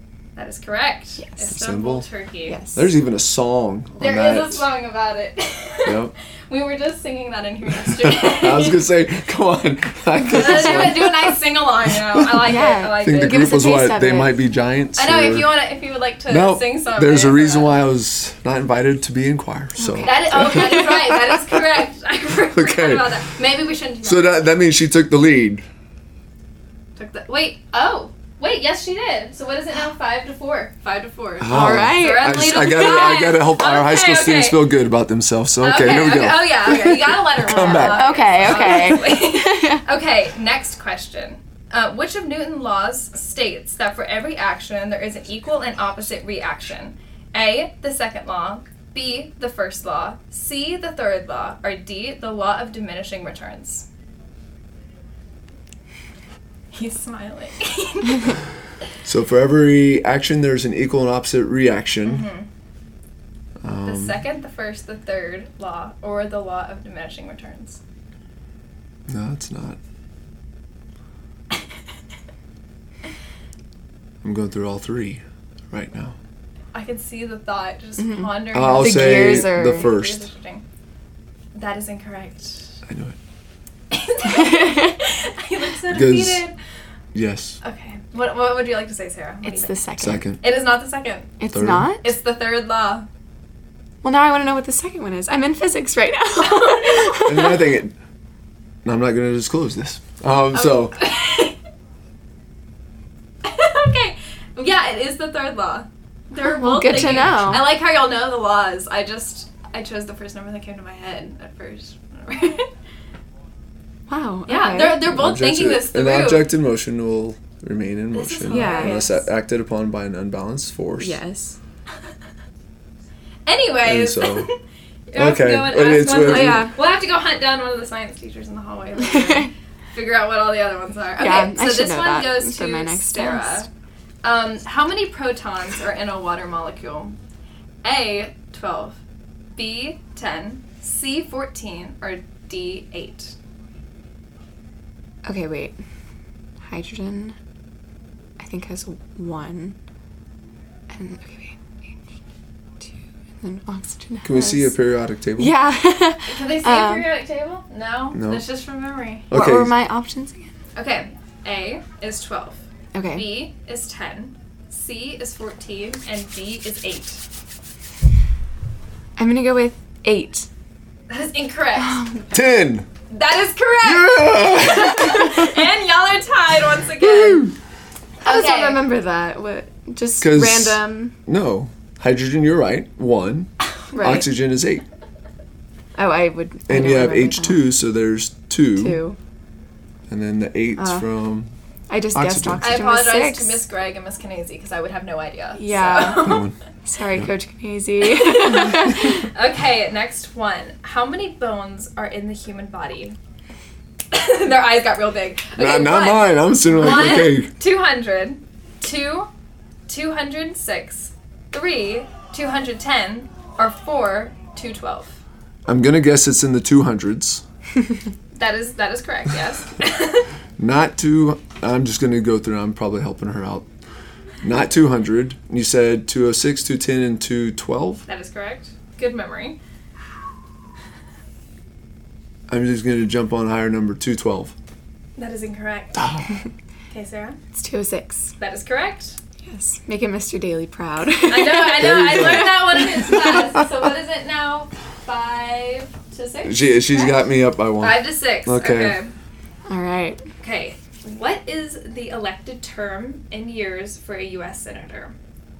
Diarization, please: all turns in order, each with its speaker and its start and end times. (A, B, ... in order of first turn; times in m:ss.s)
0:00.4-0:02.6 A
0:01.2-0:01.6 B
0:01.5-0:02.0 C
0:02.4-0:02.9 B
0:02.7-0:04.7 C
0:04.0-0:08.8 A
0:05.8-0:06.1 C
0:07.8-0:11.1 C
0:10.3-0:13.6 A
0:10.4-0:11.0 B
0:11.8-0:12.5 C
0:12.4-0:14.4 B
0:13.0-0:15.5 C
0:15.0-0:17.7 A
0:16.3-0:21.2 C
0:19.8-0:21.3 B
0:20.0-0:24.4 A
0:22.5-0:23.3 C
0:24.0-0:25.6 C
0:27.0-0:34.7 A
0:31.4-0:38.2 C
0:31.5-0:33.3 B
0:35.6-0:53.8 A
0:37.5-0:39.8 B
0:56.7-0:58.3 A
0:59.0-1:02.3 C
1:02.0-1:02.5 A
1:03.6-1:04.2 C
1:03.8-1:07.8 A
1:09.1-1:09.8 C
1:14.2-1:16.2 C
1:16.7-1:20.6 A
1:18.0-1:19.9 B
1:18.5-1:20.2 C
1:21.5-1:22.8 A
1:22.8-1:23.2 C
1:23.9-1:26.6 A
1:24.3-1:25.0 B
1:25.9-1:26.4 C
1:27.1-1:27.6 C
1:27.6-1:29.8 A
1:29.4-1:30.2 B
1:30.0-1:30.4 C
1:30.4-1:31.4 A
1:31.4-1:32.1 B
1:31.5-1:31.9 C
1:32.0-1:33.0 A
1:34.0-1:37.6 B
1:36.4-1:37.3 A
1:37.2-1:38.0 C
1:38.8-1:41.0 C
1:40.5-1:41.6 A
1:43.4-1:52.7 A
1:46.4-1:47.7 B
1:54.1-1:55.1 B
1:54.5-1:56.5 A
1:54.9-2:01.2 C
1:58.1-1:59.2 A
1:58.5-1:59.2 B
2:01.0-2:01.6 B
2:03.4-2:04.5 A
2:03.8-2:04.5 C
2:05.1-2:13.7 A
2:05.1-2:06.7 C
2:06.1-2:06.7 B
2:11.2-2:13.7 B
2:14.2-2:17.2 A
2:17.8-2:19.0 A
2:19.6-2:23.3 A
2:25.2-2:25.8 B
2:26.6-2:27.4 B
2:28.4-2:29.8 B
2:30.9-2:32.0 B
2:32.8-2:34.8 B
2:34.2-2:35.5 C
2:35.4-2:37.1 B
2:36.2-2:39.3 A
2:38.1-2:38.4 C
2:39.3-2:39.8 C
2:39.3-2:40.5 B
2:40.8-2:47.2 A
2:42.9-2:43.3 B
2:49.2-2:50.5 B
2:51.1-2:52.0 A
2:51.8-2:52.3 B
2:52.3-2:52.9 C
2:53.1-2:57.5 A
2:53.8-2:55.5 C
2:57.0-2:57.5 C
2:58.2-2:58.8 A
2:58.2-3:01.1 B
3:00.2-3:04.8 C
3:03.9-3:04.3 B
3:06.0-3:07.6 B
3:06.7-3:09.0 C
3:08.8-3:09.2 B
3:10.1-3:11.5 C
3:10.8-3:11.1 B
3:11.9-3:13.6 B
3:12.1-3:12.8 C
3:12.6-3:16.4 A
3:15.6-3:19.3 B
3:16.2-3:16.5 C
3:18.2-3:23.2 A
3:24.1-3:29.3 A
3:25.6-3:27.5 C
3:29.9-3:35.2 A
3:35.6-3:37.4 C
3:38.3-3:40.3 A
3:40.6-3:43.7 C
3:44.4-3:48.0 C
3:48.1-3:49.6 A
3:52.5-3:54.5 C
3:55.2-3:56.3 A
3:56.9-3:57.4 A
3:57.5-3:58.3 B
3:58.4-3:59.2 A
3:59.4-4:02.6 B
4:01.3-4:09.1 A
4:01.8-4:03.6 C
4:06.4-4:09.0 C
4:09.7-4:10.2 B
4:10.4-4:15.1 A